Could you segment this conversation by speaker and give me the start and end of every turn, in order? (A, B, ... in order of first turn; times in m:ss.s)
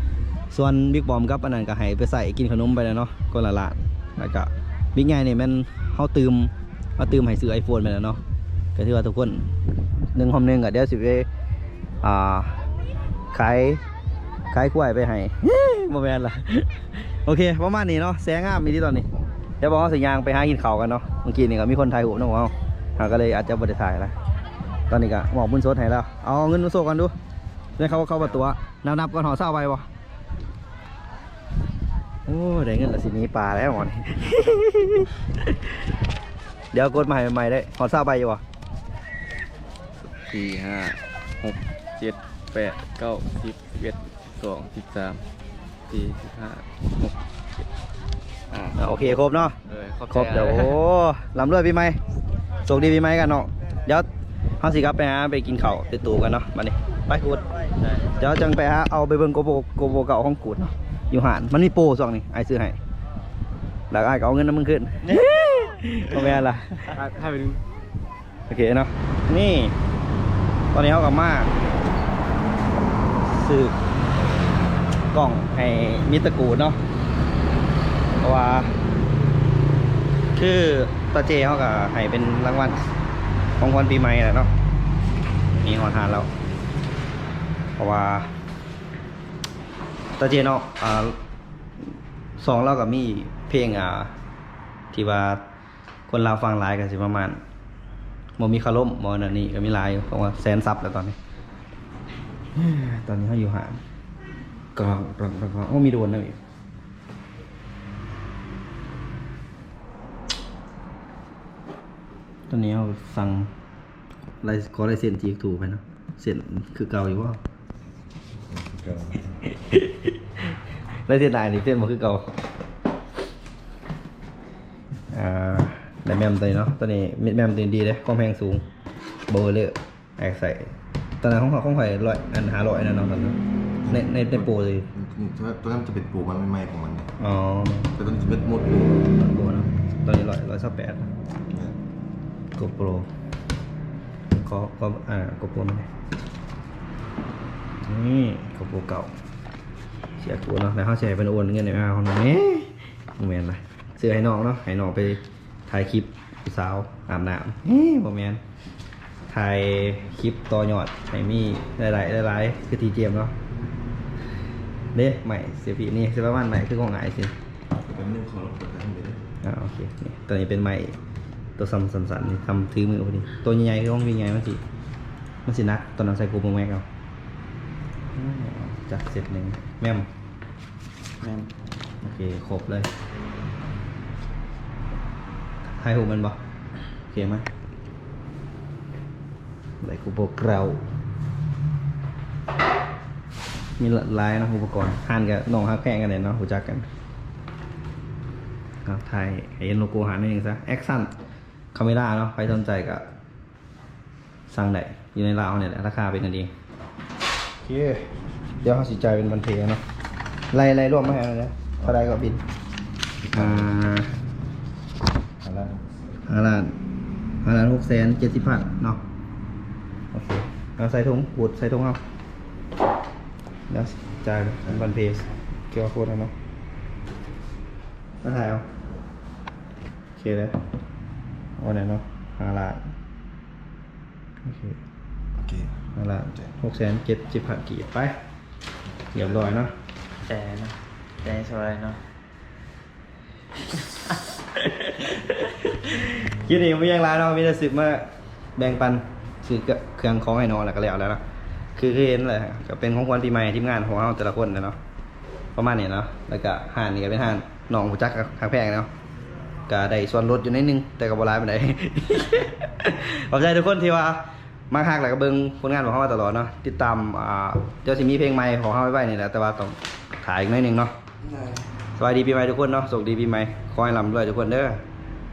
0:00.5-0:08.2 A
0:08.7-0:09.5 A
0:10.1-0:11.3 A
0:12.0-0:12.6 A
0:13.3-0:13.8 A
0:14.5-0:19.0 A
0:19.6-0:24.1 A
0:24.9-0:27.1 A
0:27.8-0:29.9 A
0:32.2-0:35.7 A
0:36.7-0:38.4 A
0:40.1-0:45.2 B
0:45.9-0:47.1 B
0:48.5-0:50.8 B
0:48.7-0:49.6 A
0:50.1-0:52.0 A
0:52.6-0:54.1 A
0:54.6-0:57.4 A
0:58.1-1:02.8 A
1:03.9-1:06.9 A
1:06.9-1:07.6 B
1:08.5-1:09.7 A
1:10.7-1:11.5 A
1:13.2-1:13.8 A
1:15.1-1:16.8 A
1:18.2-1:18.7 A
1:20.3-1:22.8 A
1:23.6-1:24.5 A
1:25.6-1:26.3 A
1:27.8-1:28.3 A
1:30.2-1:31.2 A
1:32.4-1:34.1 A
1:34.9-1:35.4 A
1:36.1-1:37.4 A
1:38.4-1:41.2 A
1:42.5-1:43.8 A
1:44.7-1:46.4 A
1:52.5-1:53.5 A
1:54.4-1:57.4 A
1:58.5-1:59.3 C
1:59.6-2:00.1 A
2:01.1-2:02.3 A
2:05.1-2:08.6 A
2:09.3-2:13.4 A
2:13.8-2:17.1 C
2:13.9-2:14.9 A
2:17.2-2:17.9 A
2:17.9-2:19.1 C
2:19.2-2:21.1 A
2:21.5-2:21.8 C
2:22.6-2:23.1 A
2:24.3-2:25.9 A
2:27.8-2:29.1 A
2:30.2-2:38.4 A
2:39.3-2:43.3 A
2:44.9-2:47.3 A
2:47.8-2:49.3 C
2:49.4-2:50.9 A
2:51.6-2:54.6 A
2:55.4-2:56.8 A
2:58.1-3:00.1 A
3:01.2-3:01.5 D
3:02.0-3:02.9 A
3:05.7-3:06.4 A
3:07.1-3:07.5 A
3:09.8-3:10.8 A
3:13.8-3:16.8 A
3:18.8-3:21.1 A
3:21.7-3:23.0 A
3:24.5-3:26.5 A
3:27.6-3:29.8 A
3:30.5-3:32.4 A
3:33.3-3:33.7 C
3:33.3-3:34.1 A
3:35.4-3:36.0 C
3:36.3-3:36.7 A
3:37.4-3:39.0 A
3:40.1-3:42.0 A
3:43.7-3:46.3 A
3:48.2-3:48.6 A
3:50.2-3:50.6 A
3:51.6-3:52.9 A
3:54.4-3:54.8 A
3:55.4-3:55.8 C
3:55.9-3:58.2 A
3:59.1-3:59.7 A
4:00.2-4:02.0 D
4:04.6-4:11.2 A
4:11.8-4:14.8 A
4:15.6-4:18.9 A
4:19.7-4:30.9 A
4:32.0-4:34.8 A